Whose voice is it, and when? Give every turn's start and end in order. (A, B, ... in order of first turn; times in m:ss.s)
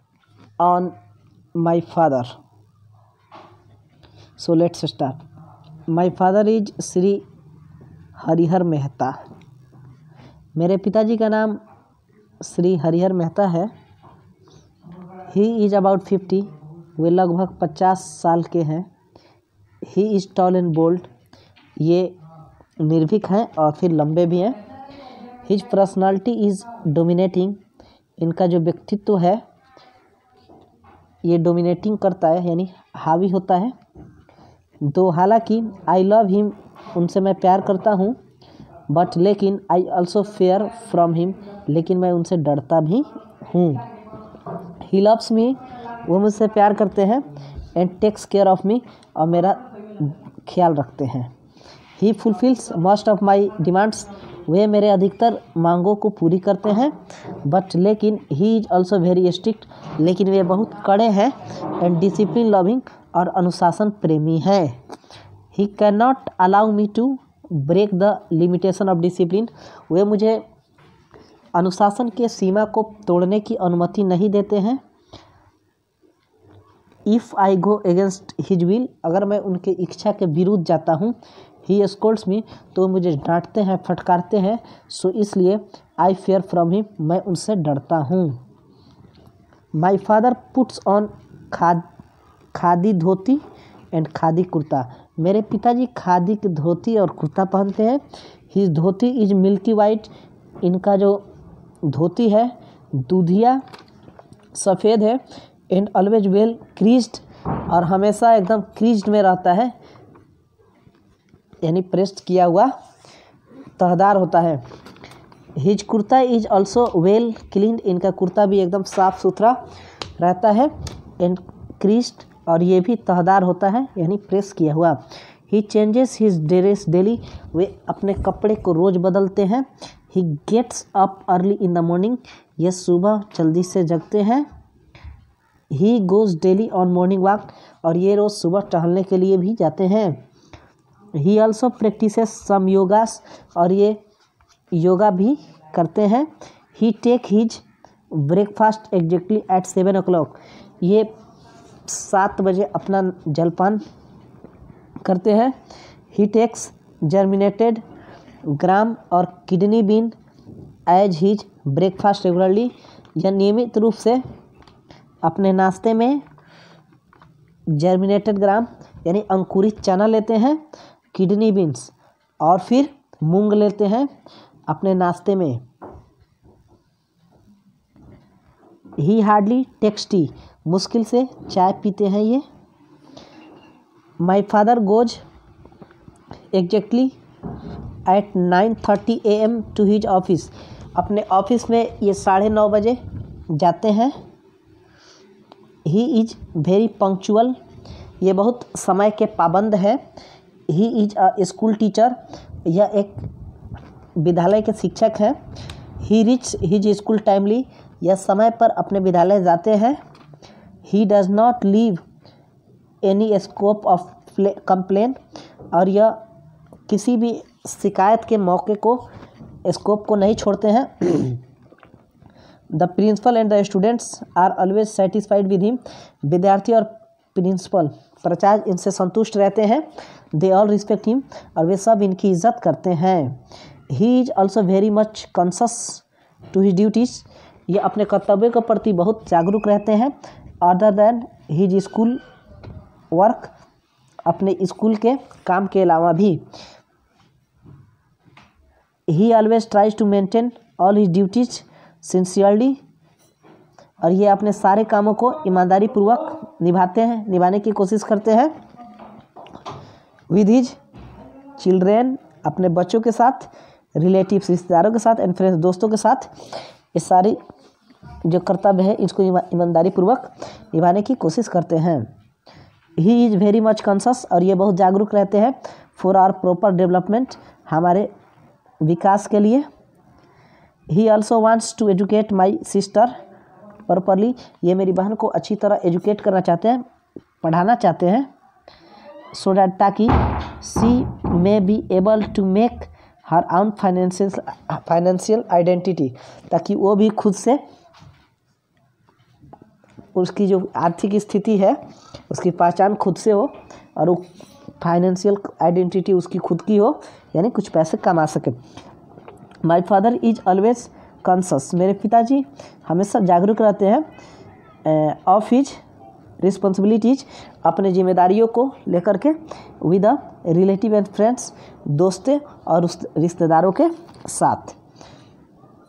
0:00.6-0:01.0 A
0:01.6-0:02.3 A
0:04.4-0:05.2 A
0:05.9-0:07.2 A
0:08.2-0:09.2 A
0:10.6-0:11.6 A
0:12.4-0:13.7 A
0:15.3-0:18.9 A
0:19.9-0:21.1 A
0:21.8-0:22.2 A
0:22.8-0:24.6 A
0:25.4-0:27.6 A
0:28.2-0:29.4 A
0:31.2-0:33.7 A
0:34.8-0:38.2 A
0:38.9-0:43.9 A
0:44.8-0:51.3 A
0:52.0-1:04.8 A
1:05.5-1:10.4 A
1:11.6-1:14.8 A
1:17.1-1:28.4 A
1:29.7-1:31.8 A
1:32.5-1:33.4 A
1:33.9-1:40.1 A
1:40.6-1:41.2 A
1:41.8-1:43.6 A
1:44.5-1:49.8 A
1:51.6-1:52.7 A
1:53.8-1:54.6 A
1:55.6-1:59.6 A
2:00.2-2:14.5 A
2:15.7-2:20.2 A
2:21.2-2:24.0 A
2:24.7-2:31.1 A
2:31.9-2:33.8 A
2:35.0-2:35.6 A
2:36.1-2:37.8 A
2:38.5-2:40.2 A
2:40.9-2:44.2 A
2:45.2-2:46.2 A
2:47.7-2:50.6 A
2:51.1-2:54.1 A
2:54.7-2:55.6 A
2:59.0-3:02.4 A
3:04.2-3:05.2 A
3:06.5-3:07.1 A
3:08.1-3:14.2 A
3:15.8-3:17.6 A
3:18.2-3:20.0 A
3:20.7-3:23.3 A
3:24.2-3:25.4 A
3:26.0-3:30.0 A
3:30.9-3:32.0 A
3:33.0-3:35.2 A
3:35.7-3:36.2 A
3:36.9-3:39.0 A
3:39.6-3:41.4 A
3:42.7-4:02.2 A
4:03.1-4:03.5 A
4:04.3-4:06.4 A
4:09.1-4:12.8 A
4:14.0-4:18.5 A
4:20.3-4:20.8 A
4:21.6-4:26.3 A
4:26.9-4:27.4 A
4:28.3-4:32.1 A
4:33.0-4:38.1 A
4:38.8-4:39.7 A
4:40.9-4:43.1 A
4:43.9-4:46.8 A
4:47.4-4:48.3 A
4:49.3-4:57.6 A
5:00.2-5:01.8 A
5:02.3-5:04.3 A
5:04.8-5:08.6 A
5:09.6-5:14.1 A
5:14.8-5:15.8 A
5:16.4-5:24.8 A